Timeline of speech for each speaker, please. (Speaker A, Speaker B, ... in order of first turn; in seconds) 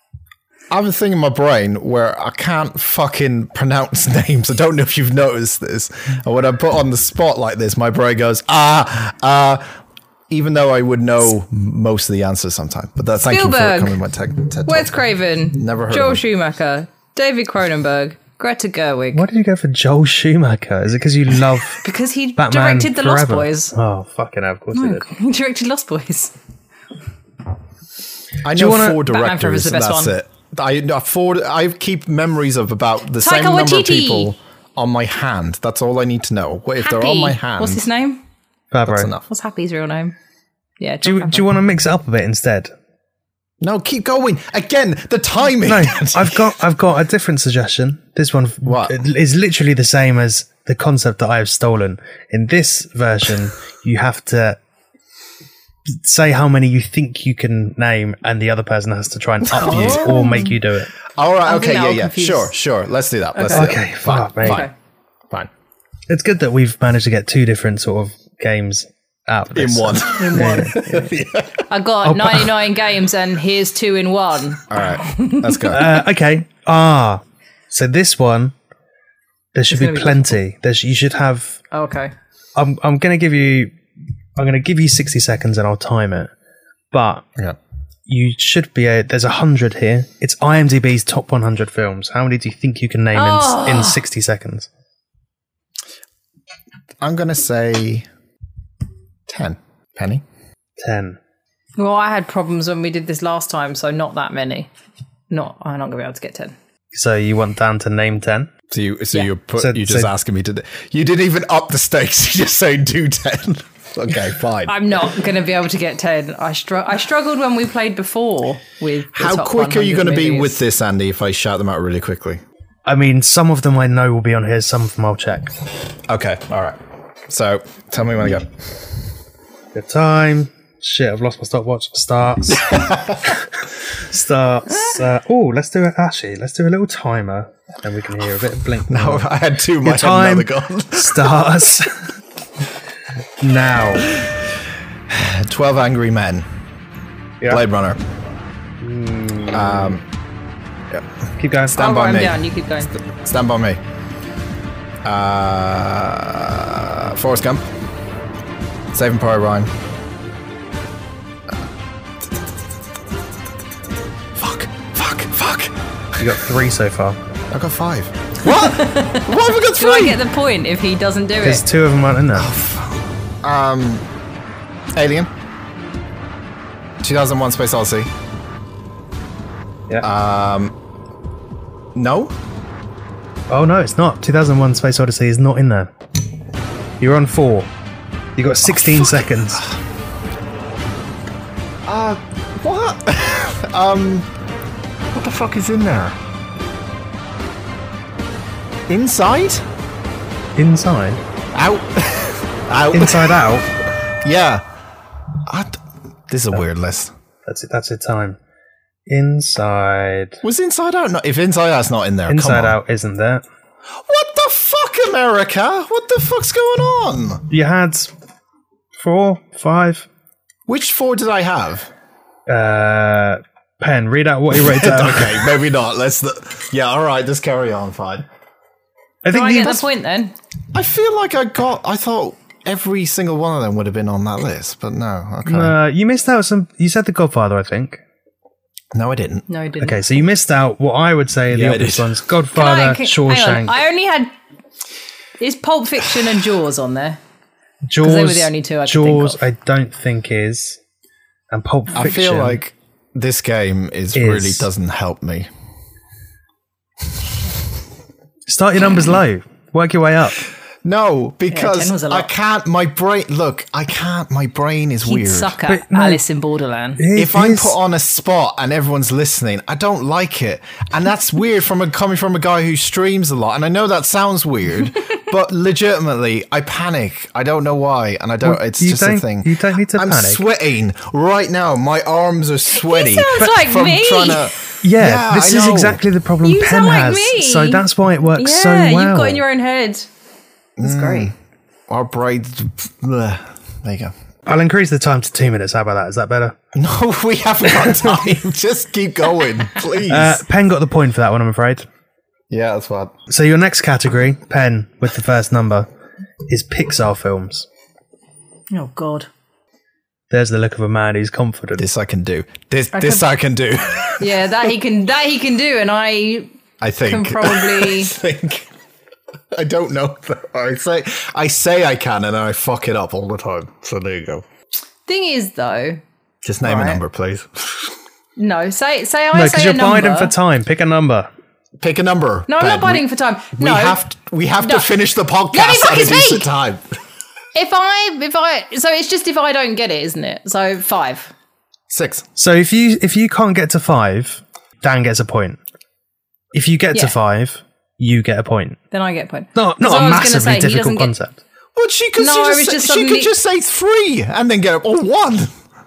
Speaker A: 0.7-9.7, 10.3-14.9, 15.5-16.2, 28.4-37.8, 38.9-39.3, 43.6-46.5, 48.6-49.0, 59.5-60.3, 61.1-64.7, 69.5-71.5, 74.7-75.8, 97.0-98.1, 99.3-100.2, 108.7-114.8, 119.1-122.4, 126.1-129.0, 132.5-133.4, 138.9-141.4, 145.1-146.5, 147.5-148.0, 149.5-150.0, 151.7-153.8, 155.0-157.7, 158.9-159.7, 164.4-166.4, 167.5-170.2, 172.3-174.1, 174.9-175.3, 177.0-178.1, 180.0-180.8, 181.9-182.3, 188.7-189.8, 191.8-194.3, 195.1-196.2, 198.9-199.7, 201.5-203.5, 204.2-204.6, 205.5-207.1, 210.4-212.8, 214.1-217.5, 220.7-221.9, 224.5-228.3, 230.7-235.8, 238.9-239.4, 241.5-242.1, 252.0-255.5, 260.8-265.6, 267.1-286.0, 290.8-291.4, 291.9-294.1, 296.8-300.4, 302.5-303.2, 311.8-314.5, 316.8-318.7, 319.5-324.4, 326.4-327.9, 331.8-333.1, 333.6-336.9, 341.9-342.3, 351.8-355.6
Speaker B: 13.3-14.0, 14.7-19.2, 21.8-23.7, 24.7-26.4, 29.0-30.1, 33.2-34.3, 36.8-38.2, 39.3-40.1, 40.8-41.5, 59.5-60.5, 61.5-62.5, 63.4-63.8, 64.4-64.7, 70.2-71.0, 71.7-75.8, 79.7-80.4, 81.7-82.1, 93.1-94.0, 101.8-104.7, 105.3-106.5, 114.7-120.6, 151.7-152.9, 168.4-171.6, 229.3-230.3, 239.5-240.0, 242.5-244.3, 245.4-247.2, 248.0-249.4, 261.5-262.3, 265.1-267.0, 282.7-284.5, 286.4-287.8, 288.4-290.1, 290.8-291.3, 308.7-309.3, 312.9-313.3, 314.2-316.5, 317.1-318.1, 325.1-326.0, 326.6-327.0, 328.4-330.4, 332.5-334.0, 334.6-334.9, 335.5-336.5, 337.6-341.3, 348.9-351.1, 352.2-353.4
Speaker C: 19.1-21.8, 22.4-25.1, 28.5-29.0, 38.7-39.1, 41.0-42.7, 45.6-54.6, 56.0-60.9, 63.5-64.7, 66.1-71.2, 72.0-72.5, 75.7-78.5, 79.5-81.6, 82.6-83.7, 84.4-86.3, 86.9-87.2, 88.1-94.7, 100.8-101.2, 106.9-108.5, 109.6-110.1, 122.9-125.5, 129.7-133.3, 133.9-141.9, 143.4-144.2, 148.8-150.0, 151.4-151.8, 166.2-167.2, 171.4-172.5, 183.5-185.9, 187.0-187.7, 188.4-189.6, 200.6-201.2, 202.9-203.7, 207.5-208.4, 209.1-210.4, 212.3-213.4, 217.5-218.1, 219.0-220.1, 222.5-225.6, 229.2-229.9, 235.5-238.0, 239.8-243.8, 247.9-250.8, 251.5-252.6, 254.1-254.7, 258.5-260.4, 265.7-266.2, 267.0-267.8, 278.4-280.4, 284.8-289.4, 294.5-296.6, 300.1-301.9, 303.3-305.9, 306.5-307.7, 310.3-311.9, 329.3-331.3, 342.4-345.6, 346.5-348.8, 349.6-351.4